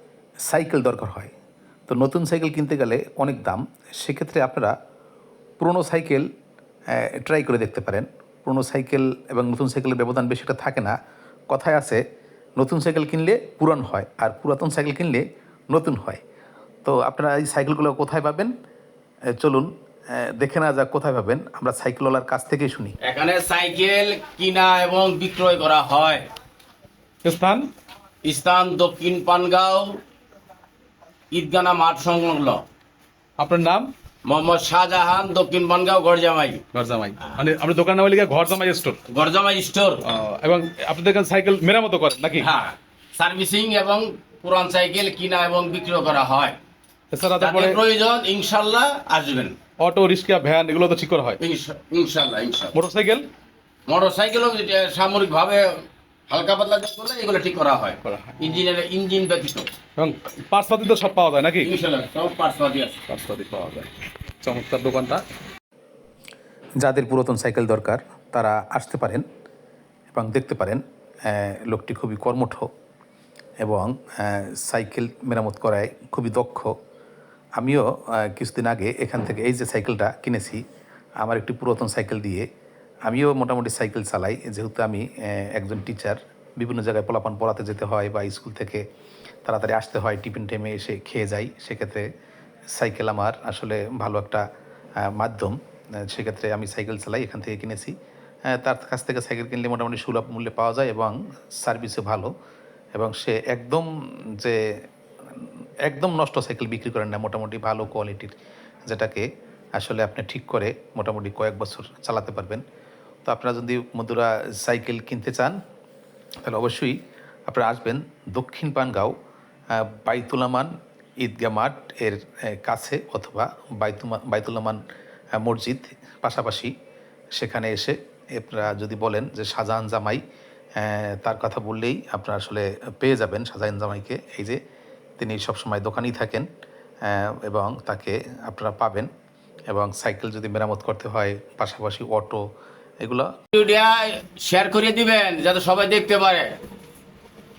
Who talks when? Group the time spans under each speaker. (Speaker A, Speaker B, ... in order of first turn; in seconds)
Speaker A: 0.5-1.3, 1.9-4.8, 5.6-6.3, 6.9-11.0, 11.5-12.0, 12.6-16.2, 16.9-18.5, 19.4-23.0, 66.8-69.2, 70.1-72.7, 73.6-76.8, 77.6-80.6, 81.2-82.5, 83.0-88.9, 89.5-92.1, 92.7-94.4, 95.0-98.0, 98.5-102.3, 103.0-104.8, 105.4-108.3, 108.9-112.6, 113.2-115.6, 116.4-119.2, 119.7-124.8, 125.3-126.7, 127.4-130.2, 130.8-134.6, 135.2-136.5, 137.0-139.1, 139.7-142.4, 143.0-143.3
Speaker B: 23.0-26.3, 28.2-30.0, 31.3-32.6, 34.2-36.6, 39.1-40.0, 42.4-46.6, 47.4-49.6, 51.4-52.8, 53.9-59.7, 61.6-63.0, 143.5-146.5
Speaker C: 27.2-27.7, 33.4-33.9, 36.7-39.0, 40.0-42.5, 47.1-47.8, 49.8-51.4, 52.8-53.3, 58.0-58.5, 60.0-61.7, 63.1-63.9, 64.4-65.2